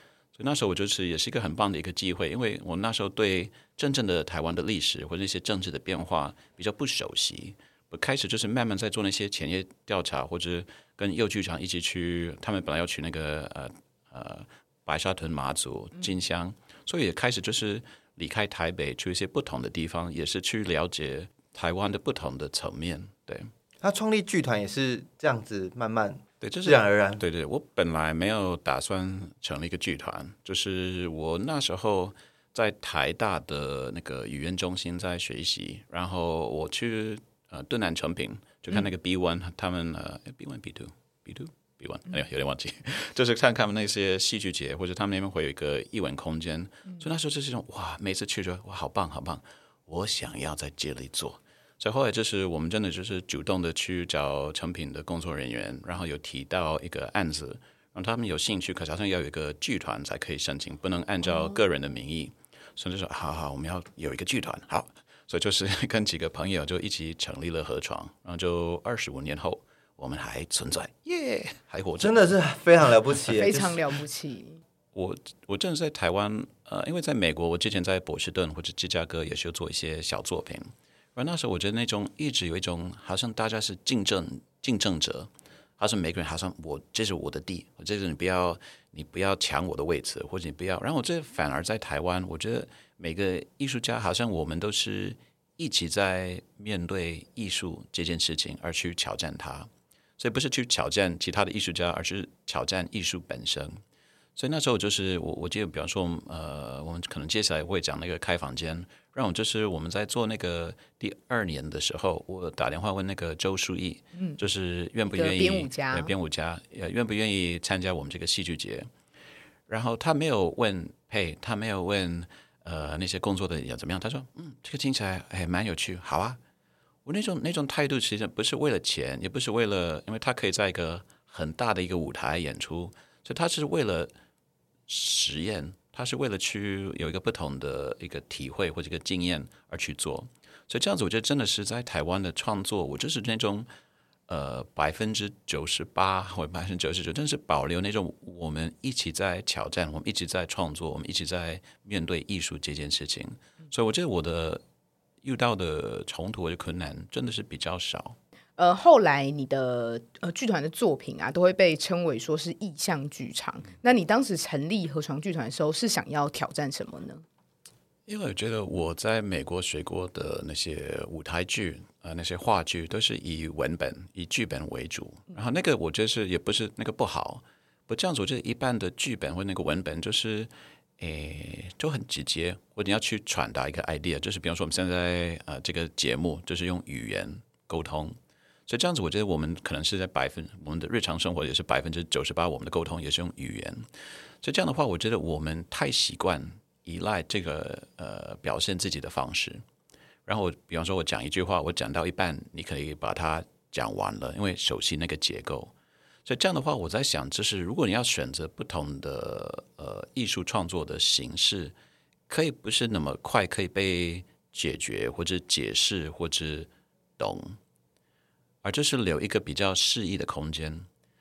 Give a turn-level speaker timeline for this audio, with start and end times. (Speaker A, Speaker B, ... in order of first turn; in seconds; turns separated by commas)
Speaker A: 0.3-23.5, Speaker B: 23.8-27.2, Speaker A: 26.4-72.3, Speaker B: 72.0-73.8, Speaker C: 73.3-74.6, Speaker A: 74.9-103.8, Speaker A: 104.3-118.9, Speaker C: 115.2-116.1, Speaker A: 119.7-126.4, Speaker A: 127.0-134.1, Speaker A: 134.9-143.7, Speaker A: 144.3-154.6, Speaker A: 155.2-158.2, Speaker C: 158.6-167.2, Speaker A: 168.1-193.9, Speaker A: 194.4-199.6, Speaker A: 200.2-205.7, Speaker A: 206.2-211.7, Speaker A: 212.3-217.6, Speaker A: 218.6-220.9